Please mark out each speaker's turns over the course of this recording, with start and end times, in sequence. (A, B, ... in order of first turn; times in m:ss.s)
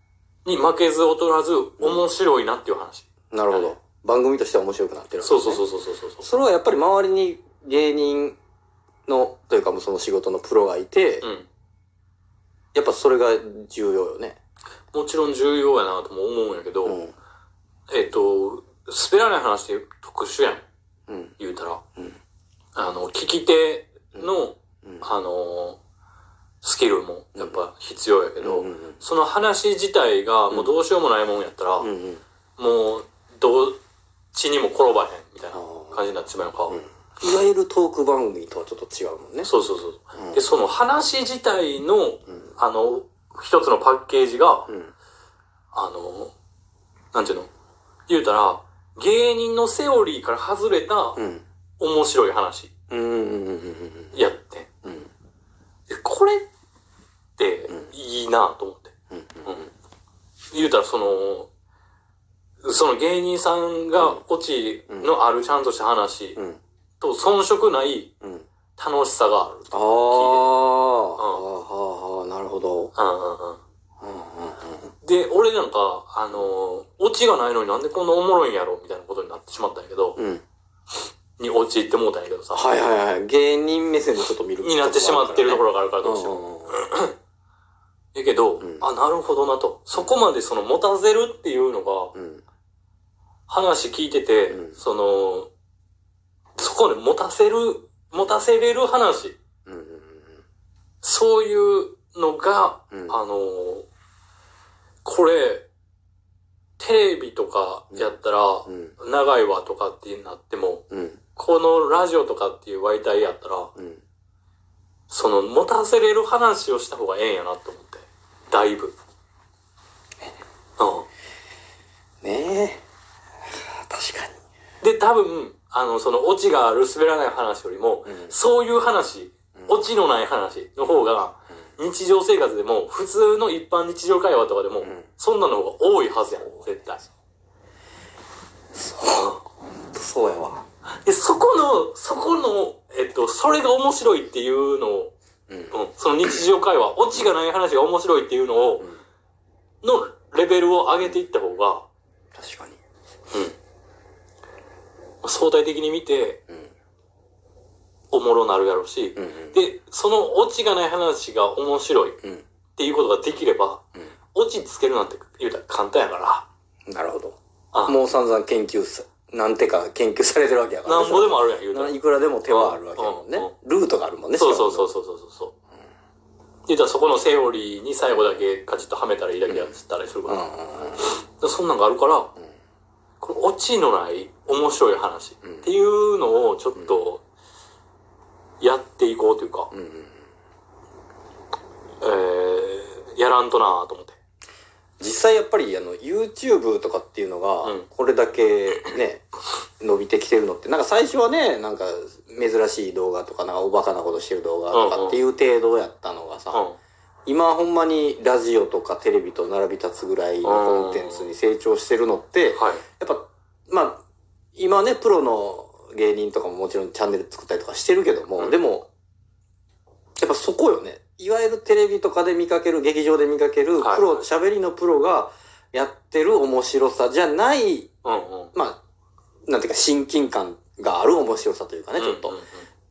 0:00.4-0:03.7 A
0:01.8-0:02.0 B
0:03.3-0:05.6 B
0:05.2-0:06.2 A
0:06.2-0:08.4 B
0:09.0-0:11.3 B
0:11.2-0:11.5 A
0:12.7-0:14.4 B
0:14.9-0:17.0 A
0:16.8-0:17.1 B
0:17.9-0:20.6 A
0:21.1-0:21.4 B
0:21.4-0:21.8 A
0:22.8-0:25.8 A
0:24.1-0:25.0 B
0:26.6-0:31.9 A
0:28.4-0:29.0 B
0:31.8-0:32.2 B
0:32.6-0:33.8 A
0:34.3-0:36.8 A
0:35.5-0:36.0 B
0:36.7-0:39.5 B
0:39.4-0:44.7 A
0:40.2-0:40.4 B
0:45.7-0:46.3 A
0:47.1-0:47.5 A
0:48.1-0:51.2 A
0:51.2-0:51.4 B
0:51.8-0:52.7 A
0:52.9-0:54.2 B
0:54.1-0:54.7 A
0:54.8-0:55.1 B
0:55.9-0:56.5 A
0:57.4-0:58.9 A
0:59.1-0:59.6 B
0:59.4-0:59.7 A
1:00.5-1:01.5 A
1:02.6-1:06.4 A
1:07.0-1:08.1 A
1:08.2-1:08.5 B
1:08.8-1:10.5 A
1:09.7-1:12.9 B
1:11.2-1:11.4 A
1:12.9-1:13.6 A
1:14.0-1:14.9 B
1:15.0-1:20.2 A
1:20.2-1:20.4 B
1:21.4-1:22.6 A
1:22.5-1:26.8 B
1:24.6-1:27.1 A
1:28.1-1:32.1 A
1:28.6-1:28.9 B
1:32.1-1:32.4 B
1:33.5-1:35.5 A
1:34.5-1:34.8 B
1:36.6-1:39.4 A
1:39.6-1:40.4 B
1:41.0-1:43.8 A
1:42.9-1:43.2 B
1:45.0-1:45.7 A
1:46.8-1:53.7 A
1:47.9-1:48.9 B
1:50.9-1:51.2 B
1:53.8-1:54.0 B
1:55.1-1:58.9 A
2:00.8-2:01.1 A
2:02.2-2:02.8 B
2:03.5-2:04.4 B
2:04.8-2:17.0 A
2:08.0-2:08.3 B
2:09.6-2:09.8 B
2:14.8-2:15.0 B
2:16.4-2:17.0 B
2:18.7-2:20.6 B
2:21.0-2:25.1 A
2:25.5-2:25.8 B
2:25.7-2:28.9 A
2:29.8-2:31.9 A
2:32.3-2:32.8 B
2:35.2-2:36.4 A
2:38.1-2:42.2 A
2:39.2-2:39.6 B
2:42.8-2:43.8 A
2:44.3-2:46.4 A
2:46.9-2:54.9 B
2:47.7-2:48.0 A
2:50.8-2:53.5 A
2:54.4-2:55.5 A
2:56.7-3:00.5 A
2:59.5-2:59.7 B
3:00.3-3:01.0 B
3:01.0-3:02.3 A
3:03.2-3:07.2 A
3:05.4-3:05.7 B
3:06.8-3:07.1 B
3:08.6-3:09.7 A
3:09.7-3:10.2 B
3:12.0-3:14.2 A
3:15.0-3:19.2 B
3:19.8-3:26.6 B
3:24.7-3:25.2 A
3:27.2-3:34.0 B
3:30.4-3:31.3 A
3:32.5-3:32.8 A
3:34.6-3:38.9 B
3:40.2-3:47.9 B
3:43.8-3:44.2 A
3:48.0-3:48.5 A
3:48.5-3:48.8 B
3:49.5-3:52.4 B
3:52.0-3:52.6 A